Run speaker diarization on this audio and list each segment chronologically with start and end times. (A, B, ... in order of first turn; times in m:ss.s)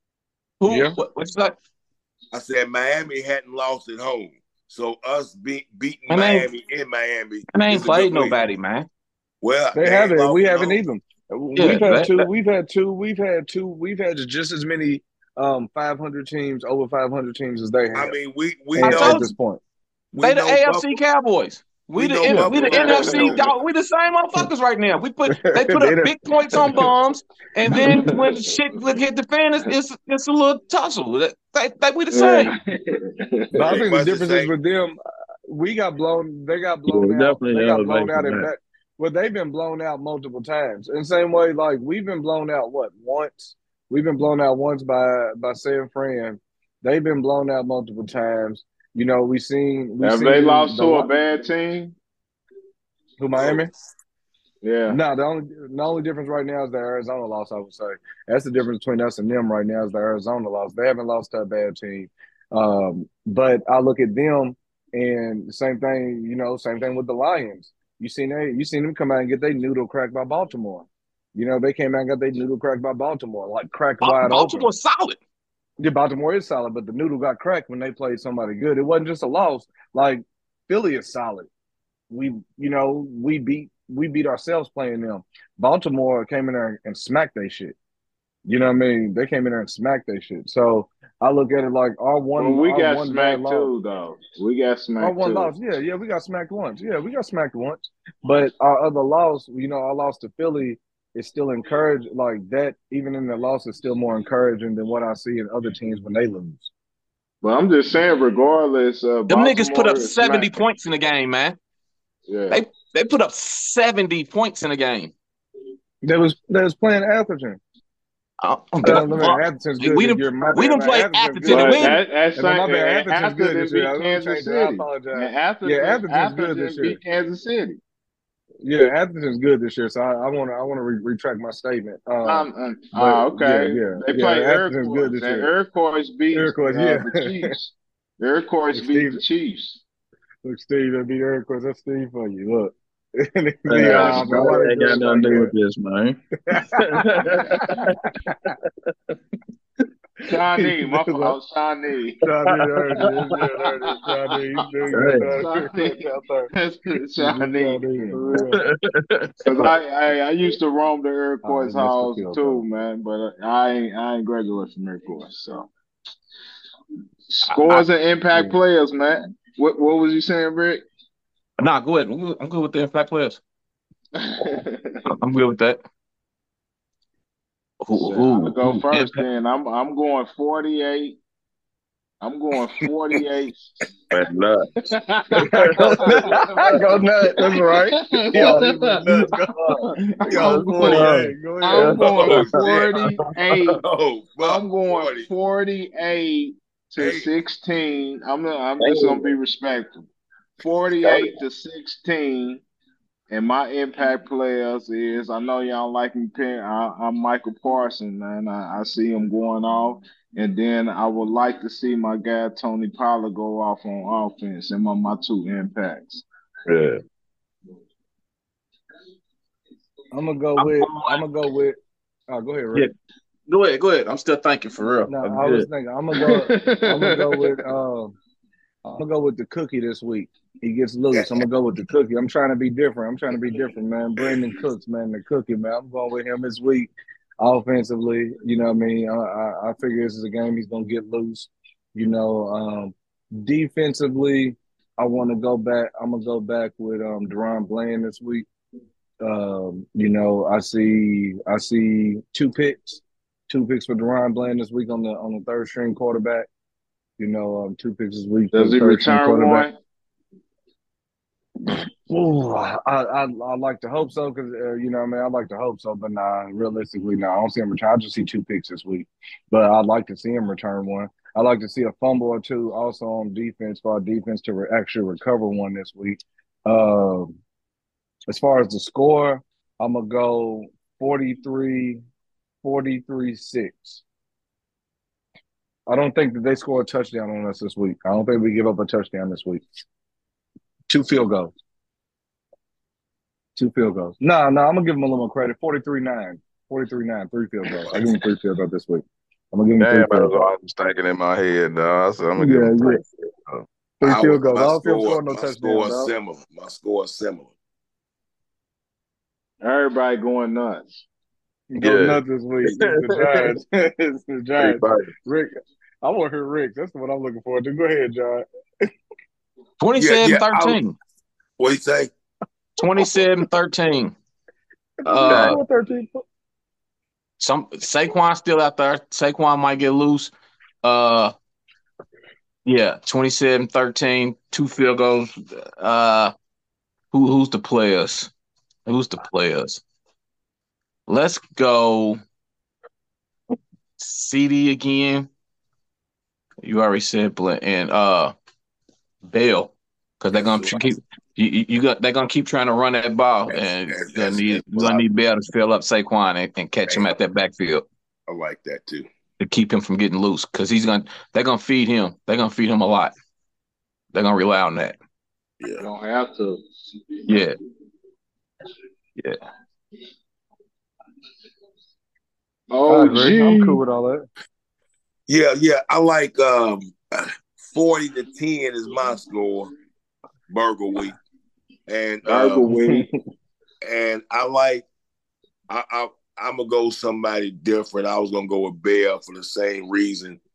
0:00.6-0:01.6 A
0:00.7-0:01.0 B
0:02.3-0:08.4 C
0:06.1-0:06.5 A
0:07.5-0:08.9 A
0:09.4-0:10.8 C
0:09.7-0:18.2 B
0:11.6-0:12.3 A
0:17.9-0:19.3 C
0:18.7-0:19.6 B
0:18.8-0:19.3 A
0:20.1-0:20.9 C
0:20.2-0:32.5 A
0:22.0-0:23.5 C
0:22.3-0:22.5 B
0:22.7-0:23.4 D
0:25.3-0:26.9 B
0:32.1-0:33.5 D
0:33.6-0:35.0 B
0:33.6-0:34.5 C
0:35.5-0:51.1 B
0:36.9-0:38.5 E
0:50.0-0:51.9 D
0:53.2-0:53.7 B
0:54.6-0:55.0 D
0:54.9-1:14.7 B
1:14.0-1:15.2 A
1:15.8-1:21.5 B
1:22.1-1:27.7 B
1:28.4-1:33.7 B
1:32.4-1:35.5 D
1:35.0-1:46.7 B
1:47.4-1:50.5 D
1:49.3-1:51.6 A
1:52.3-1:52.6 D
1:52.5-1:55.1 A
1:56.0-1:57.6 B
1:58.4-2:02.0 A
1:58.8-2:07.0 B
2:01.4-2:07.8 D
2:08.6-2:15.5 B
2:12.2-2:19.8 D
2:16.3-2:17.5 B
2:18.7-2:19.2 B
2:20.4-2:25.5 B
2:23.7-2:28.0 E
2:23.8-2:24.5 D
2:26.5-2:28.5 B
2:30.3-2:32.2 D
2:30.6-2:31.4 B
2:32.2-2:36.5 B
2:32.5-2:33.2 E
2:33.4-2:34.1 D
2:34.9-2:35.3 E
2:35.3-2:38.4 D
2:37.2-2:38.6 B
2:38.5-2:39.7 E
2:39.4-2:45.7 D
2:41.4-2:42.6 B
2:47.3-2:50.8 D
2:47.4-2:47.8 A
2:51.6-2:53.4 A
2:54.1-2:55.1 D
2:55.0-2:55.8 A
2:57.8-2:59.2 A
2:58.0-3:01.2 D
3:02.2-3:03.7 D
3:04.1-3:04.7 E
3:04.8-3:09.0 D
3:05.4-3:06.5 E
3:05.4-3:12.5 B
3:08.3-3:09.1 E
3:09.7-3:11.0 D
3:10.2-3:11.1 C
3:10.3-3:12.6 E
3:11.6-3:13.8 D
3:11.9-3:13.0 C
3:13.2-3:13.8 E
3:13.8-3:15.3 C
3:14.4-3:20.0 D
3:17.0-3:17.3 C
3:18.8-3:19.3 E
3:20.6-3:22.6 D
3:21.0-3:21.4 E
3:23.3-3:36.2 D
3:36.7-3:37.0 E
3:40.1-3:41.8 B
3:40.6-3:41.2 A
3:42.3-3:42.9 B
3:43.5-3:45.2 A
3:45.1-3:48.2 B
3:45.2-3:45.7 E
3:46.1-3:47.5 D
3:48.8-4:08.4 B
3:51.1-3:51.4 C
4:09.2-4:16.5 B
4:17.2-4:19.7 B
4:18.5-4:19.8 D
4:22.1-4:37.4 B
4:38.3-4:42.0 B
4:42.6-4:44.0 B
4:45.9-4:49.8 B
4:50.9-4:51.5 B
4:53.6-5:00.5 B
4:59.8-5:03.6 E
5:02.4-5:03.0 B
5:04.0-5:06.1 B
5:04.0-5:07.5 C
5:09.6-5:11.0 D
5:11.7-5:18.9 B
5:11.8-5:13.5 E
5:14.6-5:15.1 E
5:19.8-5:21.0 A
5:19.9-5:20.8 C
5:21.6-5:22.1 C
5:22.8-5:24.1 A
5:25.0-5:26.2 B
5:25.0-5:25.6 A
5:25.2-5:25.6 E
5:27.4-5:30.3 A
5:30.8-5:31.3 A
5:32.6-5:36.3 A
5:37.1-5:38.3 A
5:38.8-5:39.8 A
5:41.1-5:42.2 A
5:44.0-5:45.3 A
5:46.6-5:48.3 A
5:49.2-5:57.8 A
5:50.3-5:50.8 C
5:53.5-5:55.0 C
5:58.3-5:59.1 C
5:59.4-6:03.1 A
6:04.1-6:05.0 A
6:05.8-6:06.6 D
6:07.3-6:07.6 A
6:09.2-6:09.4 A
6:12.7-6:13.8 D
6:12.9-6:14.2 B
6:15.3-6:19.7 C
6:20.5-6:21.2 C
6:21.9-6:22.7 C
6:22.2-6:23.1 D
6:22.7-6:23.2 B
6:23.8-6:24.8 C
6:25.7-6:30.4 C